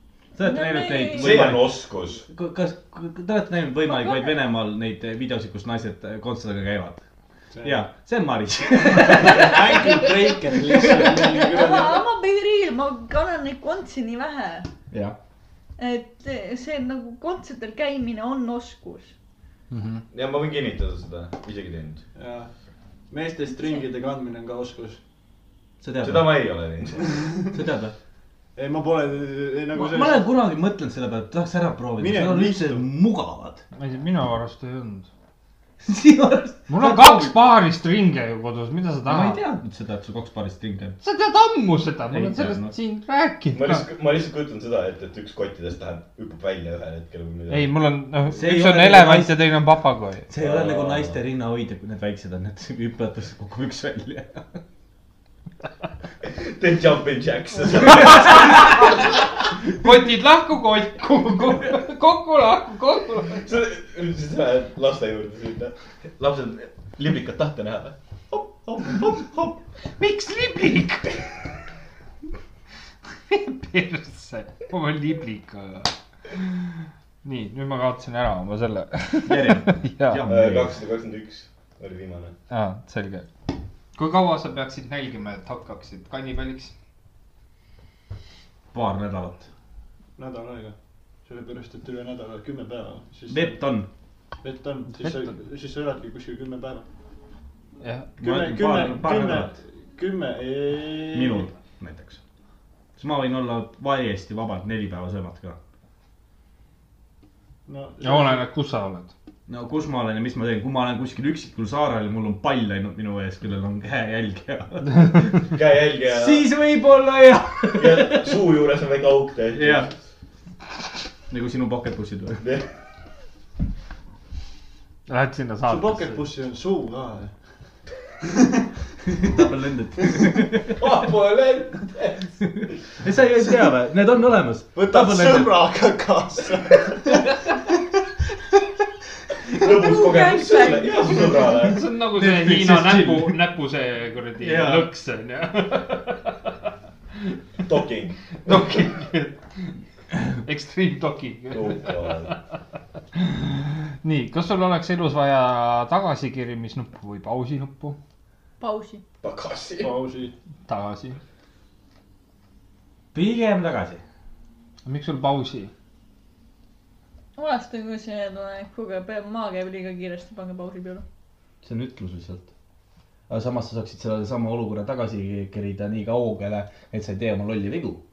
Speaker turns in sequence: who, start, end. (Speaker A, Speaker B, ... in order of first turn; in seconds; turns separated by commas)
Speaker A: 0.3-7.0, Speaker B: 0.4-1.3, Speaker C: 1.1-2.2, Speaker B: 3.9-4.3, Speaker D: 7.5-7.8, Speaker A: 7.6-11.3, Speaker D: 9.0-12.0, Speaker B: 11.3-14.7, Speaker A: 14.9-15.2, Speaker B: 15.8-19.1, Speaker E: 19.7-20.0, Speaker C: 20.1-22.0, Speaker D: 22.1-22.5, Speaker D: 23.1-25.0, Speaker A: 25.8-26.4, Speaker C: 26.0-27.1, Speaker A: 27.5-27.9, Speaker D: 28.6-30.3, Speaker A: 29.7-33.6, Speaker D: 32.0-32.8, Speaker E: 33.7-35.1, Speaker A: 35.8-37.4, Speaker E: 36.7-39.4, Speaker A: 39.0-41.0, Speaker E: 41.0-43.8, Speaker A: 42.1-42.7, Speaker C: 43.5-47.7, Speaker E: 47.5-50.2, Speaker A: 48.3-49.5, Speaker A: 50.3-54.6, Speaker C: 50.4-51.2, Speaker C: 56.3-58.9, Speaker E: 58.5-59.0, Speaker E: 59.8-63.5, Speaker C: 63.4-69.5, Speaker E: 70.0-71.2, Speaker E: 73.3-76.6, Speaker E: 77.2-80.2, Speaker A: 79.2-80.7, Speaker C: 80.3-82.3, Speaker E: 82.5-83.3, Speaker E: 83.9-86.7, Speaker A: 88.7-89.5, Speaker D: 90.2-93.6, Speaker A: 93.3-93.9, Speaker D: 94.4-96.8, Speaker E: 97.8-98.1, Speaker A: 98.2-99.6, Speaker D: 98.2-101.5, Speaker A: 101.1-102.2, Speaker A: 103.0-105.6, Speaker D: 107.7-108.4, Speaker E: 108.0-109.1, Speaker A: 109.5-115.5, Speaker C: 115.5-116.5, Speaker A: 116.1-118.3, Speaker C: 117.8-119.9, Speaker A: 119.5-119.9, Speaker A: 121.3-122.4, Speaker C: 122.4-122.7, Speaker E: 125.1-126.2, Speaker D: 125.7-127.3, Speaker D: 128.2-128.6, Speaker A: 129.1-130.8, Speaker C: 130.8-132.2, Speaker A: 132.4-135.5, Speaker D: 134.7-137.4, Speaker C: 139.5-141.8, Speaker B: 139.6-141.5, Speaker E: 141.6-146.5, Speaker A: 142.1-143.4, Speaker A: 144.4-144.9, Speaker C: 147.6-148.7, Speaker E: 148.4-152.4, Speaker C: 151.5-152.3, Speaker E: 153.1-158.0, Speaker B: 158.6-159.0, Speaker C: 159.2-160.0, Speaker D: 159.8-160.3, Speaker E: 160.7-161.2, Speaker A: 163.1-164.0, Speaker E: 164.8-165.7, Speaker B: 167.3-171.0, Speaker A: 171.6-172.5, Speaker A: 173.3-178.0